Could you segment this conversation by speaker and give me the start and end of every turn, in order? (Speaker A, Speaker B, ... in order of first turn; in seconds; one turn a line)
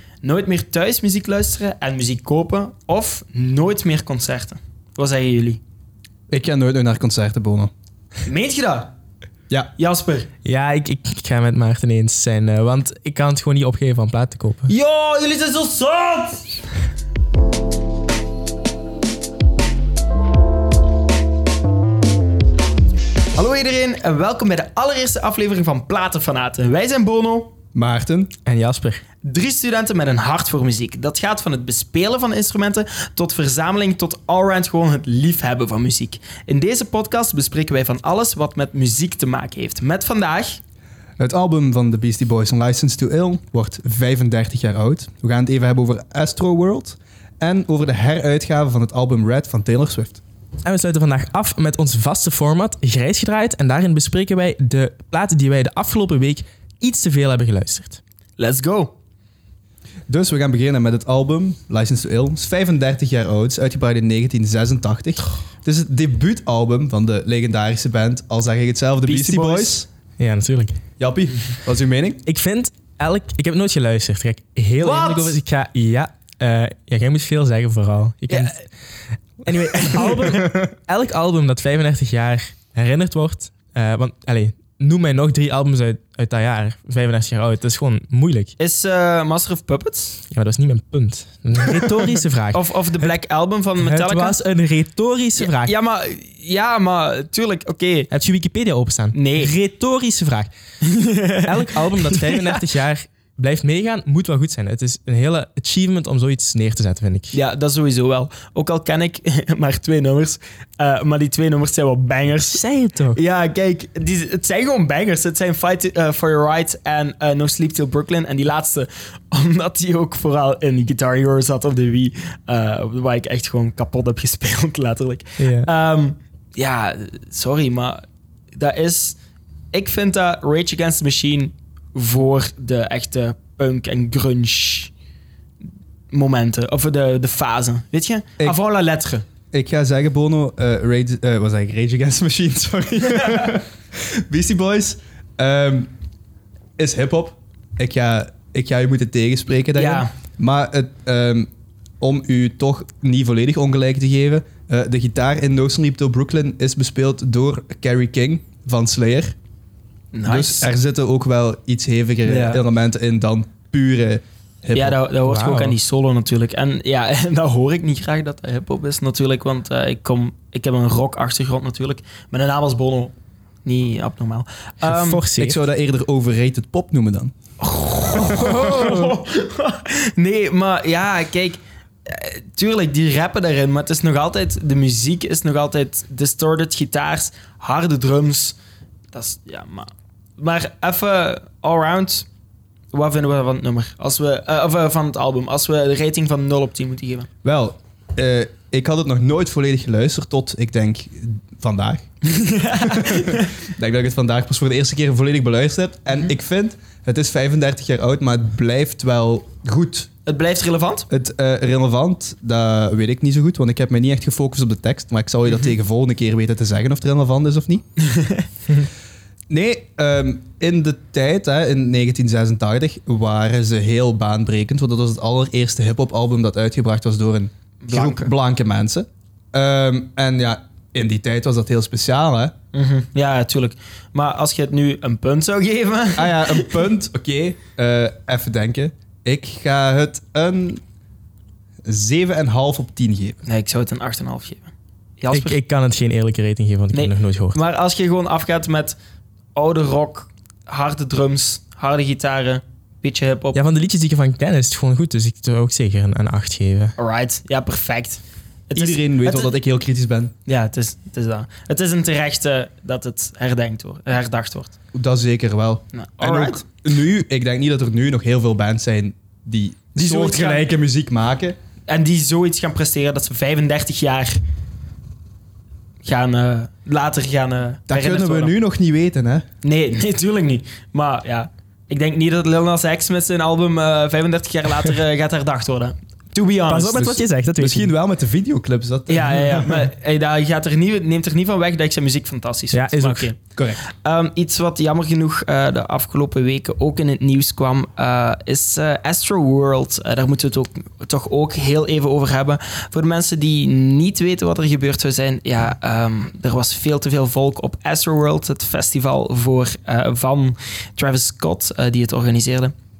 Speaker A: 0.2-5.6
Speaker B: 6.3-7.7
Speaker A: 8.2-8.9
Speaker A: 9.8-10.3
Speaker C: 10.4-14.7
Speaker A: 14.7-16.5
Speaker A: 23.3-27.5
Speaker B: 27.7-28.3
Speaker C: 28.4-29.0
Speaker A: 29.2-40.6
Speaker B: 41.2-50.2
Speaker C: 50.6-58.0
Speaker A: 58.4-58.9
Speaker B: 60.1-69.9
Speaker A: 69.0-69.8
Speaker C: 70.2-70.8
Speaker B: 71.0-72.2
Speaker C: 72.2-78.7
Speaker A: 74.8-75.4
Speaker A: 78.3-78.5
Speaker C: 79.4-88.5
Speaker A: 79.7-80.6
Speaker A: 88.6-90.2
Speaker C: 90.3-93.1
Speaker A: 92.5-94.4
Speaker C: 93.8-95.7
Speaker A: 95.4-98.1
Speaker C: 98.1-100.5
Speaker A: 99.1-99.5
Speaker A: 100.8-102.6
Speaker C: 101.4-107.3
Speaker A: 107.3-112.6
Speaker C: 112.4-113.2
Speaker A: 113.1-129.2
Speaker C: 125.4-125.7
Speaker A: 129.7-134.9
Speaker A: 136.1-139.2
Speaker B: 139.5-145.9
Speaker A: 143.1-143.5
Speaker B: 146.8-159.3
Speaker A: 149.8-150.1
Speaker A: 160.1-160.7
Speaker B: 160.2-165.0
Speaker A: 162.3-162.6
Speaker A: 164.7-173.1
Speaker C: 165.2-165.8
Speaker A: 173.6-175.2
Speaker C: 174.8-175.6
Speaker B: 175.3-177.3
Speaker A: 177.6-188.6
Speaker C: 178.3-179.1
Speaker A: 189.1-192.3
Speaker A: 192.9-197.3
Speaker B: 197.4-202.1
Speaker A: 202.2-203.6
Speaker B: 202.6-210.1
Speaker A: 210.2-211.1
Speaker B: 211.1-217.8
Speaker A: 218.0-218.5
Speaker B: 219.5-232.5
Speaker A: 227.8-228.3
Speaker A: 232.7-236.7
Speaker B: 236.1-240.8
Speaker B: 241.8-243.4
Speaker A: 243.4-245.6
Speaker C: 245.3-247.6
Speaker A: 246.9-249.0
Speaker A: 249.5-253.6
Speaker C: 253.5-256.9
Speaker A: 257.0-259.6
Speaker B: 258.7-260.3
Speaker A: 260.4-264.8
Speaker B: 264.9-271.6
Speaker A: 265.9-266.6
Speaker A: 269.9-270.7
Speaker A: 271.9-274.4
Speaker A: 276.0-278.5
Speaker B: 277.9-279.5
Speaker A: 279.6-287.2
Speaker C: 286.7-287.9
Speaker B: 287.6-289.9
Speaker A: 289.1-312.7
Speaker C: 292.7-293.3